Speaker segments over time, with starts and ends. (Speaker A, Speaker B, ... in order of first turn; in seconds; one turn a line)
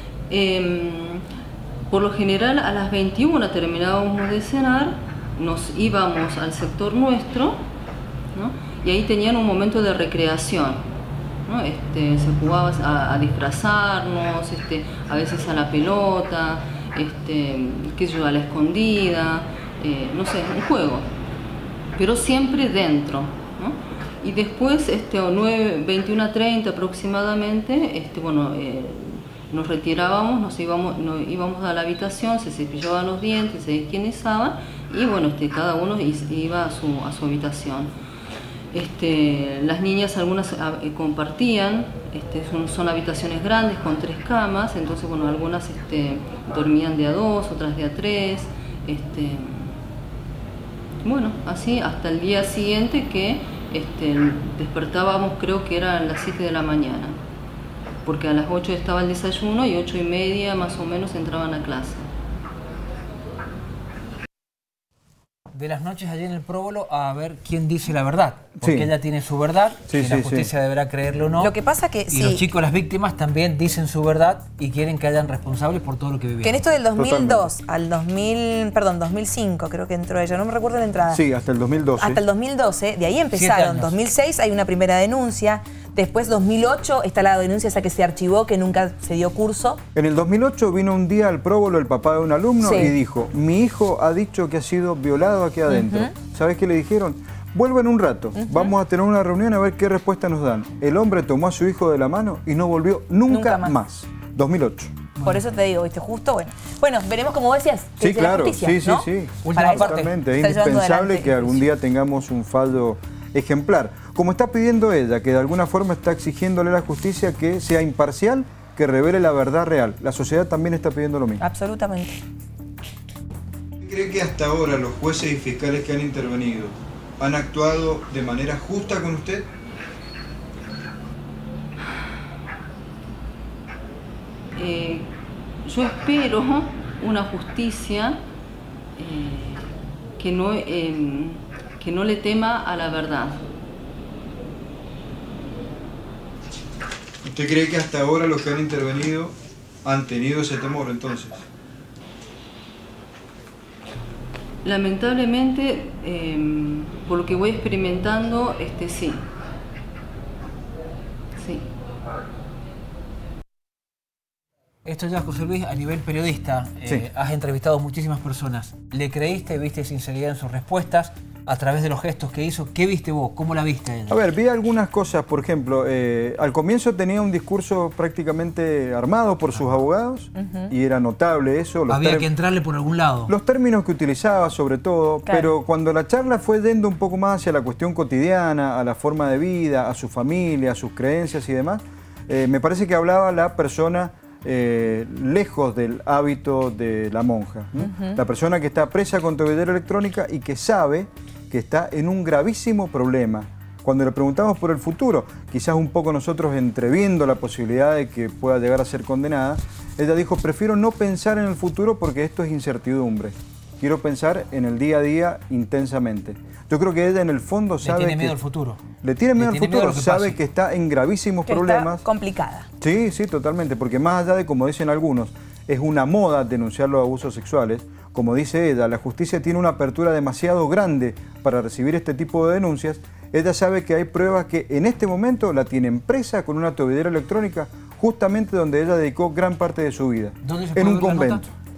Speaker A: 0.3-1.2
Speaker A: 1.9-7.7
Speaker A: 8.3-10.9
Speaker A: 11.5-21.1
Speaker A: 21.9-37.9
Speaker A: 38.7-49.8
Speaker A: 51.0-57.2
Speaker A: 58.0-62.0
Speaker B: 65.5-71.5
Speaker C: 68.6-68.9
Speaker C: 69.9-70.5
Speaker D: 71.4-72.4
Speaker B: 72.1-76.6
Speaker D: 76.4-81.2
Speaker C: 77.0-77.5
Speaker C: 81.1-82.2
Speaker D: 82.0-89.8
Speaker B: 83.3-84.0
Speaker C: 90.0-105.0
Speaker D: 92.6-92.9
Speaker D: 95.7-96.1
Speaker D: 98.4-98.7
Speaker D: 103.3-103.8
Speaker D: 105.2-111.5
Speaker C: 108.0-121.4
Speaker B: 109.4-110.1
Speaker D: 121.4-122.2
Speaker C: 123.8-129.5
Speaker A: 134.6-135.1
Speaker A: 135.6-138.2
Speaker A: 139.0-143.4
Speaker C: 147.2-151.4
Speaker A: 154.6-159.3
Speaker A: 161.4-161.7
Speaker B: 164.8-174.2
Speaker C: 174.1-182.3
Speaker B: 181.9-183.3
Speaker C: 183.3-218.3
Speaker D: 197.9-198.2
Speaker B: 217.8-218.8
Speaker C: 219.0-222.1
Speaker B: 219.4-220.4
Speaker D: 221.5-222.7
Speaker C: 222.8-241.5
Speaker B: 240.4-241.4